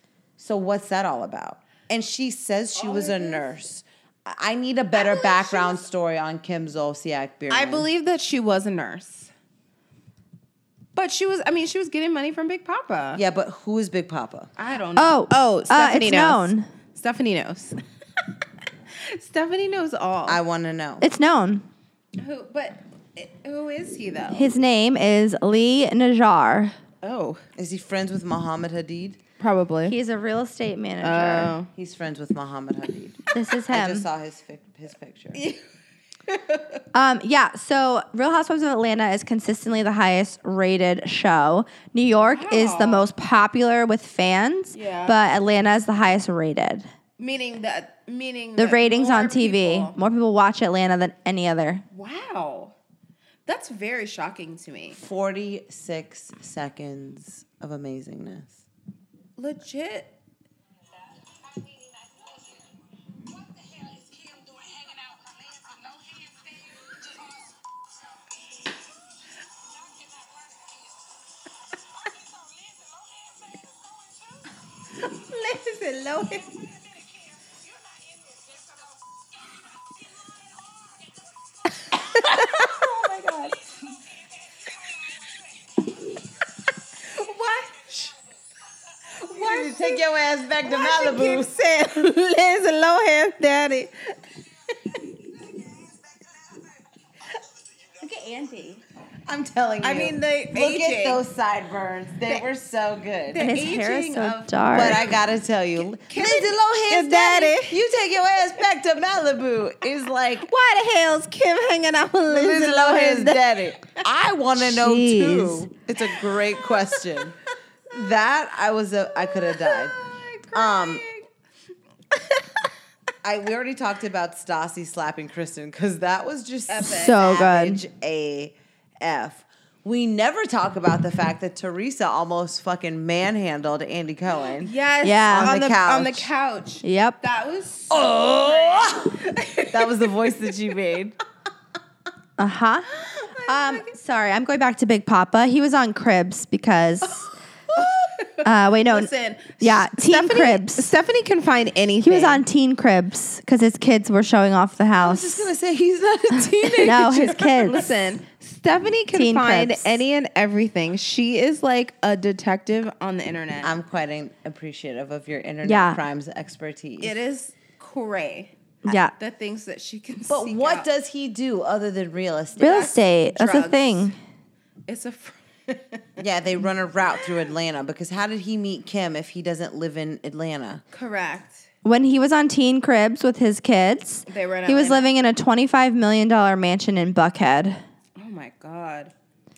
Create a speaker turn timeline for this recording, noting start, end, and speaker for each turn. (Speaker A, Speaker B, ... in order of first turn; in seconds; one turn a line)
Speaker A: 0.4-7.9
Speaker B: 2.7-3.5
Speaker B: 4.9-5.8
Speaker B: 7.5-9.3
Speaker B: 10.9-13.2
Speaker A: 13.1-14.5
Speaker B: 14.6-17.8
Speaker C: 15.0-16.7
Speaker B: 18.9-20.4
Speaker A: 20.2-21.1
Speaker C: 21.0-21.6
Speaker B: 22.2-24.4
Speaker C: 24.3-26.8
Speaker B: 27.0-27.4
Speaker A: 27.6-29.2
Speaker B: 29.4-29.9
Speaker C: 29.9-31.5
Speaker B: 31.0-31.7
Speaker A: 31.7-35.4
Speaker C: 33.3-34.0
Speaker B: 35.3-35.6
Speaker B: 36.3-36.8
Speaker C: 36.9-46.9
Speaker B: 42.2-43.1
Speaker B: 44.7-45.2
Speaker B: 47.2-50.0
Speaker C: 48.6-51.8
Speaker B: 51.9-52.7
Speaker B: 53.5-55.0
Speaker A: 54.9-58.6
Speaker B: 59.4-60.1
Speaker B: 63.8-64.9
Speaker B: 75.0-76.6
Speaker B: 81.9-83.7
Speaker B: 87.0-88.1
Speaker B: 89.2-90.0
Speaker A: 89.2-91.6
Speaker B: 90.6-94.1
Speaker B: 98.0-98.8
Speaker A: 99.3-103.4
Speaker B: 99.8-101.2
Speaker B: 103.3-105.1
Speaker C: 103.4-105.0
Speaker A: 104.7-110.5
Speaker B: 105.8-107.8
Speaker B: 110.4-114.0
Speaker A: 112.3-117.4
Speaker C: 114.6-115.7
Speaker B: 116.1-117.3
Speaker A: 117.9-120.0
Speaker B: 119.2-121.2
Speaker A: 120.5-121.0
Speaker B: 122.1-122.5
Speaker A: 123.2-134.7
Speaker B: 126.7-127.2
Speaker C: 126.8-127.8
Speaker B: 134.6-140.1
Speaker C: 135.0-135.6
Speaker A: 135.3-136.3
Speaker C: 136.8-137.2
Speaker A: 137.9-141.2
Speaker C: 142.4-142.9
Speaker B: 142.9-143.9
Speaker C: 143.4-147.3
Speaker B: 147.7-152.4
Speaker C: 148.4-150.8
Speaker C: 152.0-155.5
Speaker A: 155.0-157.5
Speaker C: 156.8-157.9
Speaker B: 157.4-163.8
Speaker C: 159.1-160.0
Speaker A: 163.6-167.2
Speaker C: 165.6-166.0
Speaker B: 167.0-168.5
Speaker C: 168.8-169.1
Speaker B: 169.1-170.9
Speaker A: 170.3-172.9
Speaker C: 172.6-174.2
Speaker B: 172.6-174.1
Speaker B: 174.9-176.2
Speaker A: 176.2-180.8
Speaker B: 180.9-181.6
Speaker C: 181.8-187.8
Speaker B: 184.3-185.1
Speaker B: 188.2-189.1